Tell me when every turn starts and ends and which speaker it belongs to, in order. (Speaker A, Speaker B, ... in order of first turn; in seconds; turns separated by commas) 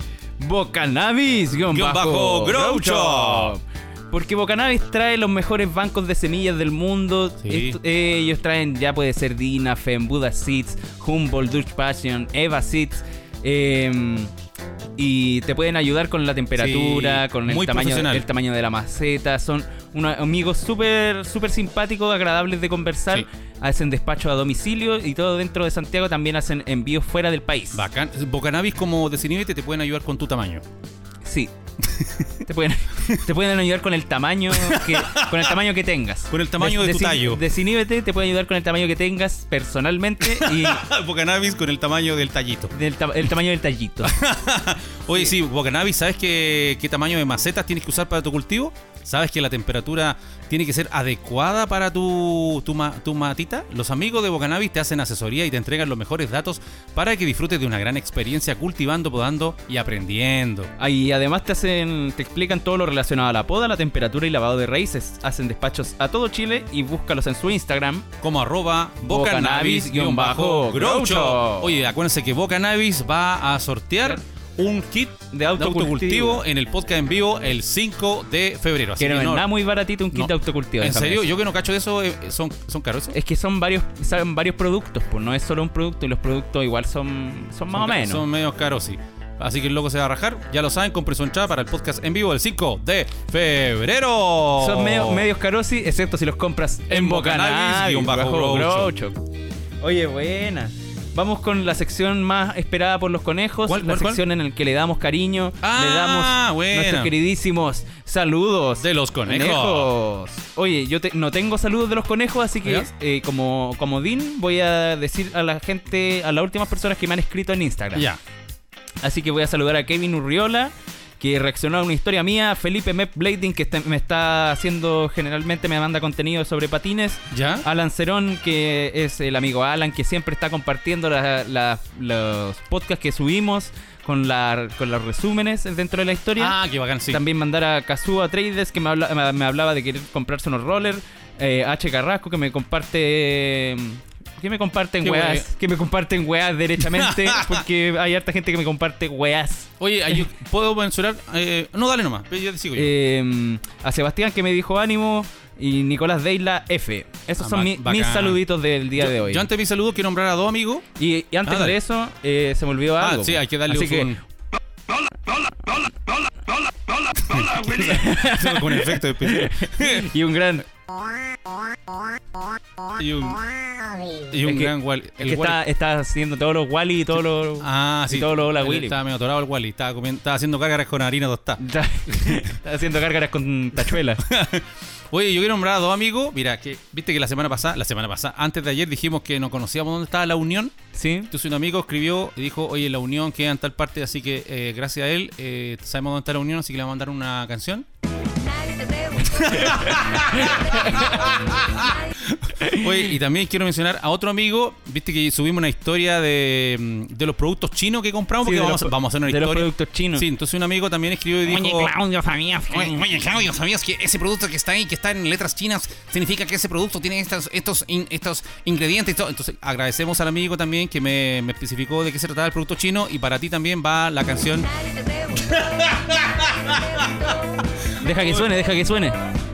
Speaker A: 0.4-14.3, Speaker B: 1.7-3.5, Speaker B: 7.4-7.8, Speaker A: 15.0-27.8, Speaker B: 16.6-18.2, Speaker B: 27.7-30.6, Speaker A: 31.2-31.5, Speaker B: 31.9-32.3, Speaker A: 32.4-40.8, Speaker B: 34.5-35.6, Speaker B: 36.3-37.4, Speaker B: 40.2-42.7, Speaker A: 42.7-44.1, Speaker B: 44.0-60.7, Speaker A: 60.8-68.0, Speaker B: 68.2-79.5, Speaker A: 69.0-71.7, Speaker A: 75.3-76.4, Speaker A: 79.0-81.2, Speaker B: 80.1-83.2, Speaker A: 83.1-88.2, Speaker B: 87.7-95.3, Speaker A: 94.6-99.2, Speaker B: 96.9-98.9, Speaker A: 99.8-118.1, Speaker B: 103.7-104.2, Speaker B: 105.6-107.1, Speaker B: 108.8-109.9, Speaker B: 117.9-118.2, Speaker A: 119.0-136.6, Speaker B: 127.3-127.6, Speaker B: 136.4-137.2, Speaker A: 137.1-149.7, Speaker B: 145.0-145.5, Speaker B: 146.8-147.6, Speaker B: 149.8-152.9, Speaker A: 152.7-159.5, Speaker B: 157.4-158.4, Speaker B: 158.9-160.8, Speaker A: 161.0-164.1, Speaker B: 161.4-161.8, Speaker B: 163.0-164.2, Speaker B: 167.1-170.1, Speaker A: 167.7-170.7, Speaker B: 172.9-173.4, Speaker B: 174.3-175.6, Speaker A: 174.4-178.9, Speaker B: 177.6-182.5, Speaker A: 181.6-184.2, Speaker B: 183.9-190.8, Speaker A: 190.9-191.3, Speaker B: 191.3-197.9, Speaker C: 198.4-199.4, Speaker B: 199.3-211.9, Speaker A: 199.6-201.1, Speaker A: 202.6-202.9, Speaker A: 208.4-210.3, Speaker A: 211.4-213.0, Speaker B: 212.7-224.7, Speaker C: 224.8-225.6, Speaker B: 225.3-227.3, Speaker C: 226.7-227.3, Speaker A: 228.0-229.2, Speaker B: 228.1-228.5